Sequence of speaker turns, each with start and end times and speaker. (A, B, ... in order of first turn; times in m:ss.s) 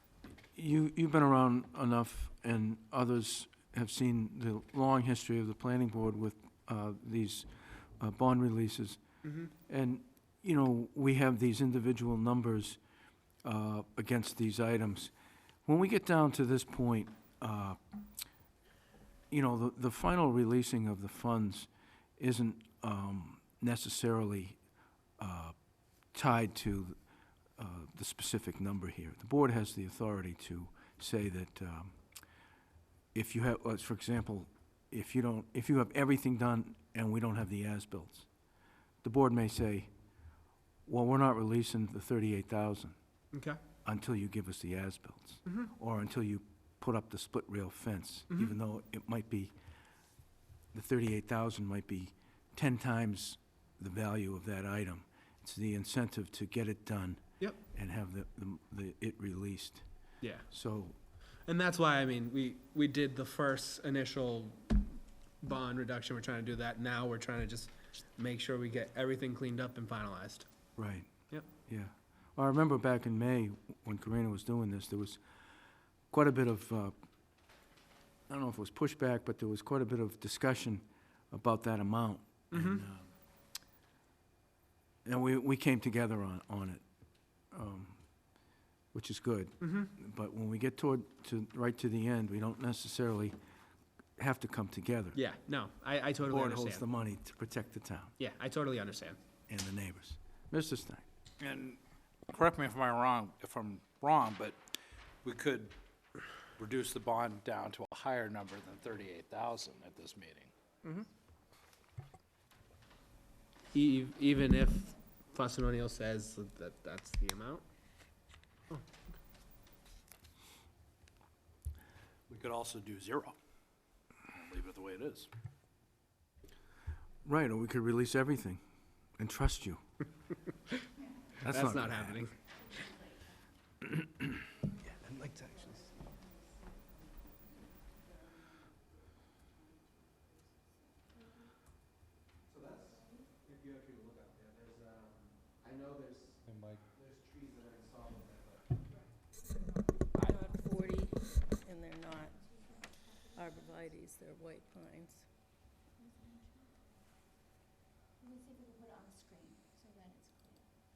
0:00.5-0:09.0 A
0:09.2-0:09.5 B
0:09.7-0:12.8 A
0:13.4-0:15.1 A
0:15.6-0:17.8 A
0:19.3-0:24.6 A
0:25.2-0:25.5 A
0:26.1-0:27.0 A
0:27.6-0:32.0 A
0:33.1-0:38.3 A
0:39.0-0:39.9 A
0:40.8-0:42.9 A
0:43.3-0:43.6 B
0:43.8-0:49.5 A
0:50.7-0:59.8 A
1:00.2-1:00.5 B
1:00.5-1:00.9 A
1:01.4-1:04.9 B
1:05.4-1:10.4 B
1:10.8-1:11.1 A
1:11.6-1:15.2 A
1:16.1-1:16.9 A
1:18.3-1:23.1 A
1:22.5-1:22.8 B
1:25.0-1:26.8 A
1:27.5-1:28.4 A
1:28.9-1:33.3 A
1:29.6-1:29.9 B
1:34.2-1:35.2 A
1:35.1-1:36.8 B
1:36.2-1:38.1 A
1:38.2-1:39.2 B
1:39.5-1:41.0 A
1:41.4-1:44.6 C
1:45.2-1:45.7 C
1:46.6-1:50.5 C
1:53.7-1:57.6 B
2:02.3-2:03.4 C
2:04.3-2:05.3 C
2:07.2-2:08.6 A
2:09.2-2:09.8 A
2:11.4-2:12.2 A
2:11.5-2:12.3 B
2:15.0-2:15.8 B
2:22.5-2:26.4 B
2:26.5-2:26.8 C
2:26.9-2:28.8 B
2:30.2-2:32.4 D
2:33.3-2:35.2 D